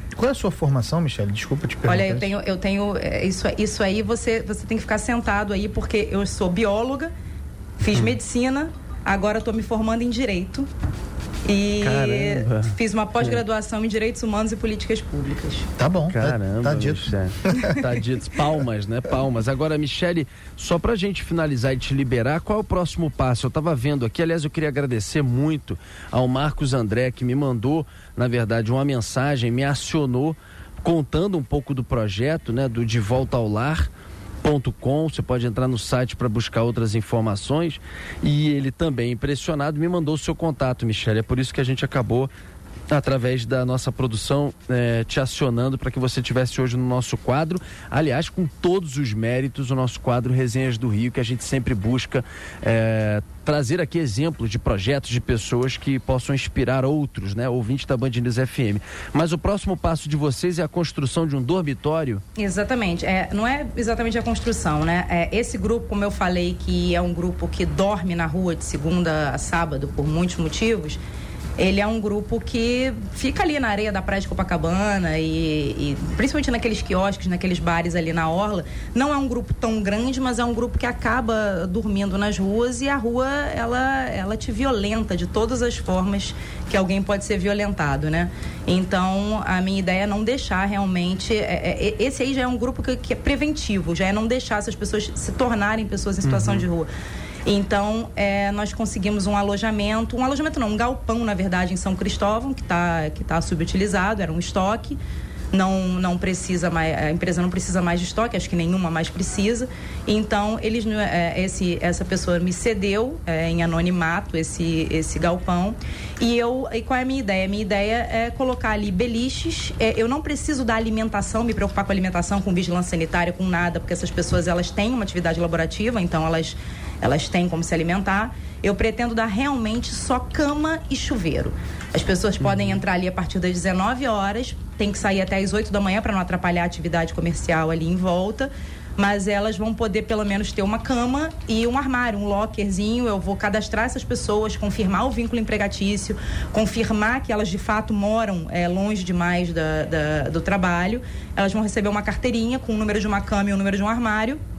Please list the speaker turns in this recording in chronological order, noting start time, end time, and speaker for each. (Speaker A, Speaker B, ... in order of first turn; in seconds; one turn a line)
Speaker A: 0.1-2.3
Speaker B: 1.8-7.1
Speaker B: 7.8-10.7
Speaker B: 11.4-15.7
Speaker C: 11.8-13.4
Speaker A: 15.8-17.8
Speaker C: 16.1-33.9
Speaker C: 34.4-42.3
Speaker C: 42.9-62.2
Speaker B: 62.4-71.0
Speaker B: 71.6-96.9
Speaker C: 96.2-96.7
Speaker B: 97.5-105.0
Speaker B: 105.5-154.4
Speaker C: 132.4-132.8